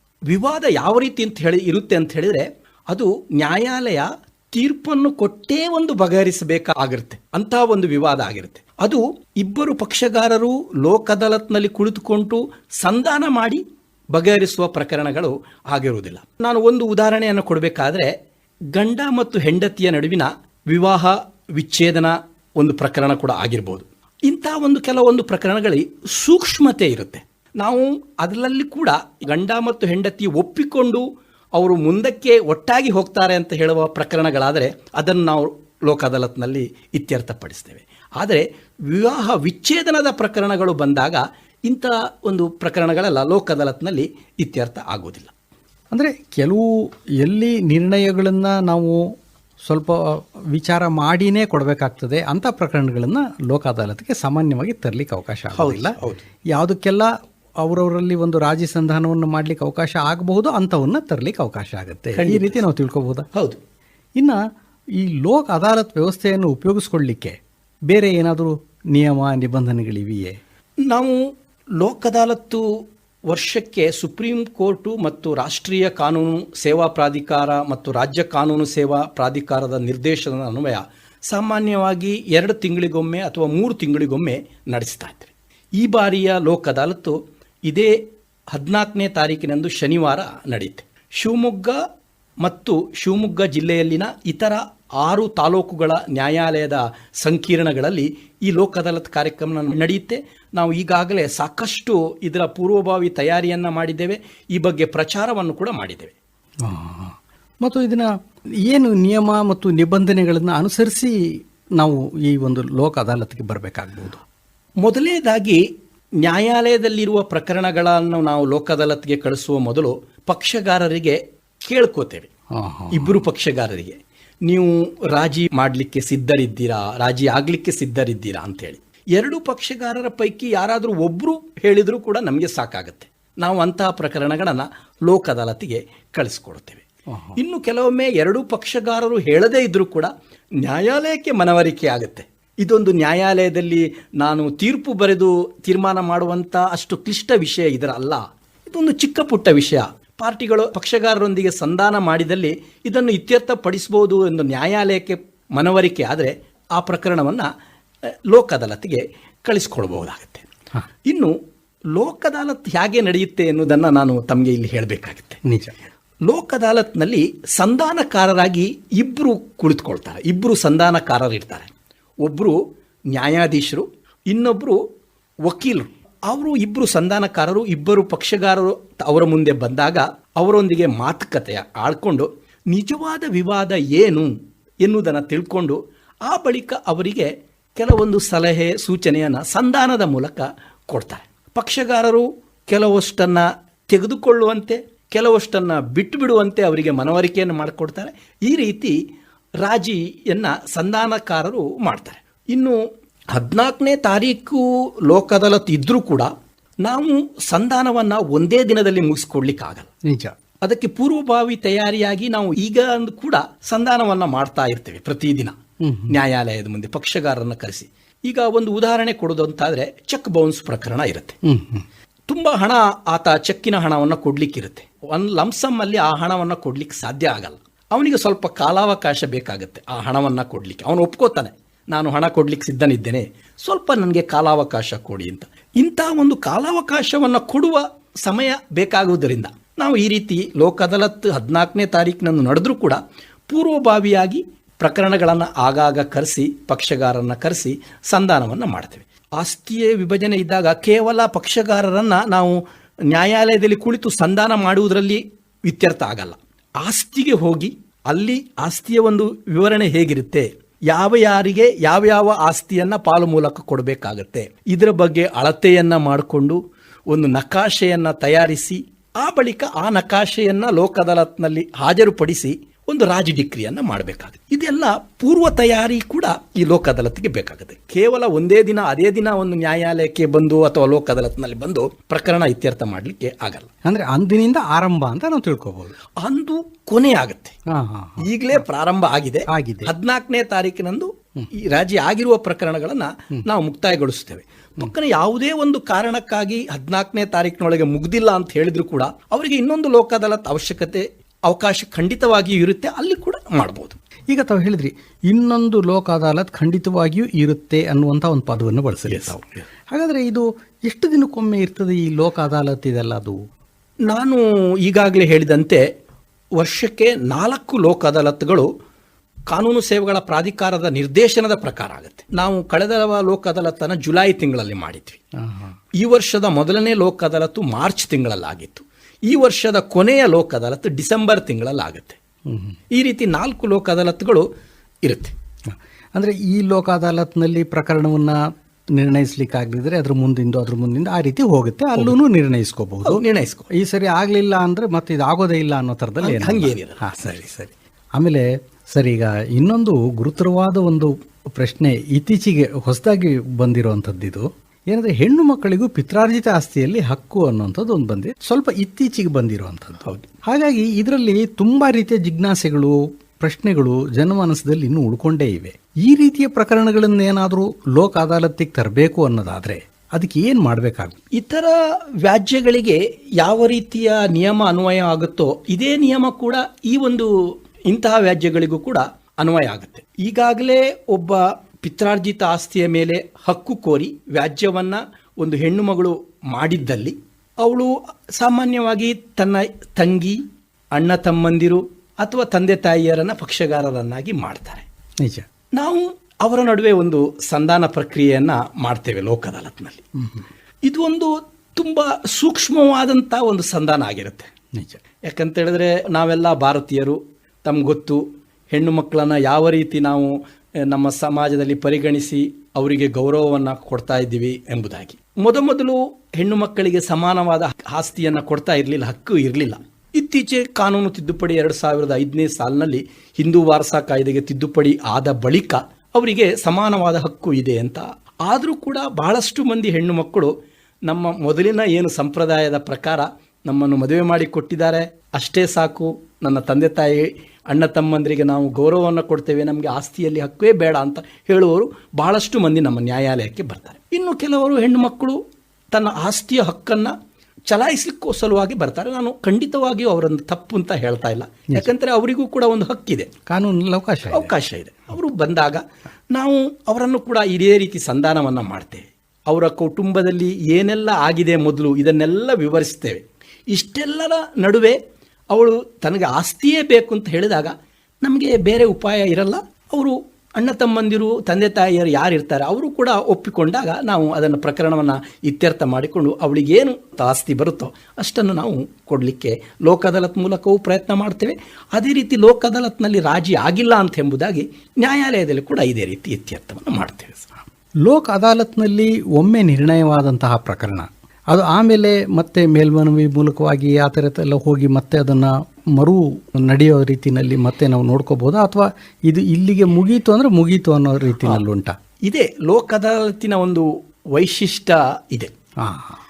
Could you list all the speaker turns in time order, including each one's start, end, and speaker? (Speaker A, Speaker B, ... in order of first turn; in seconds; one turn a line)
Speaker A: 0.3-18.1
Speaker A: 18.7-45.3
Speaker B: 45.9-56.0
Speaker A: 55.5-56.2
Speaker B: 56.5-63.3
Speaker A: 62.1-62.6
Speaker B: 64.9-70.4
Speaker A: 70.8-71.2
Speaker A: 71.8-72.7
Speaker A: 73.2-88.0
Speaker A: 88.5-91.8
Speaker A: 92.4-106.1
Speaker B: 106.6-114.2
Speaker A: 114.8-115.6
Speaker A: 116.2-122.3
Speaker B: 122.5-123.2
Speaker A: 122.9-136.8
Speaker B: 137.1-137.4
Speaker A: 137.3-140.1
Speaker A: 140.6-157.5
Speaker A: 158.1-160.5
Speaker A: 161.1-161.3
Speaker A: 161.9-165.4
Speaker B: 165.4-165.7
Speaker A: 166.2-171.7
Speaker A: 172.2-172.6
Speaker A: 173.1-174.8
Speaker A: 175.4-184.3
Speaker A: 184.8-198.9
Speaker A: 199.6-202.8
Speaker A: 203.3-206.3
Speaker A: 206.8-209.9
Speaker B: 210.1-210.4
Speaker A: 210.6-215.6
Speaker B: 215.8-216.2
Speaker A: 216.1-221.3
Speaker B: 221.4-221.8
Speaker A: 222.3-266.6
Speaker A: 267.1-283.7
Speaker B: 283.8-285.9
Speaker A: 286.2-287.6
Speaker B: 287.7-288.6
Speaker A: 288.2-304.0
Speaker B: 289.5-289.9
Speaker B: 304.3-313.4
Speaker A: 309.1-309.4
Speaker A: 314.1-315.8
Speaker A: 316.5-318.7
Speaker A: 319.5-325.2
Speaker B: 325.4-325.8
Speaker A: 326.0-332.2
Speaker B: 332.5-332.8
Speaker A: 332.9-334.5
Speaker A: 335.0-335.3
Speaker B: 335.6-371.2
Speaker A: 343.0-343.7
Speaker A: 346.2-347.0
Speaker A: 371.3-377.3
Speaker A: 377.9-390.4
Speaker A: 390.9-394.8
Speaker B: 395.2-395.5
Speaker A: 395.8-400.0
Speaker B: 400.2-400.4
Speaker A: 400.8-404.5
Speaker B: 404.7-405.0
Speaker A: 405.2-430.5
Speaker A: 431.1-445.4
Speaker A: 445.9-447.1
Speaker A: 447.7-453.3
Speaker B: 453.5-454.5
Speaker A: 454.3-465.0
Speaker A: 465.5-487.5
Speaker B: 488.0-502.0
Speaker A: 502.2-505.5
Speaker B: 505.8-506.2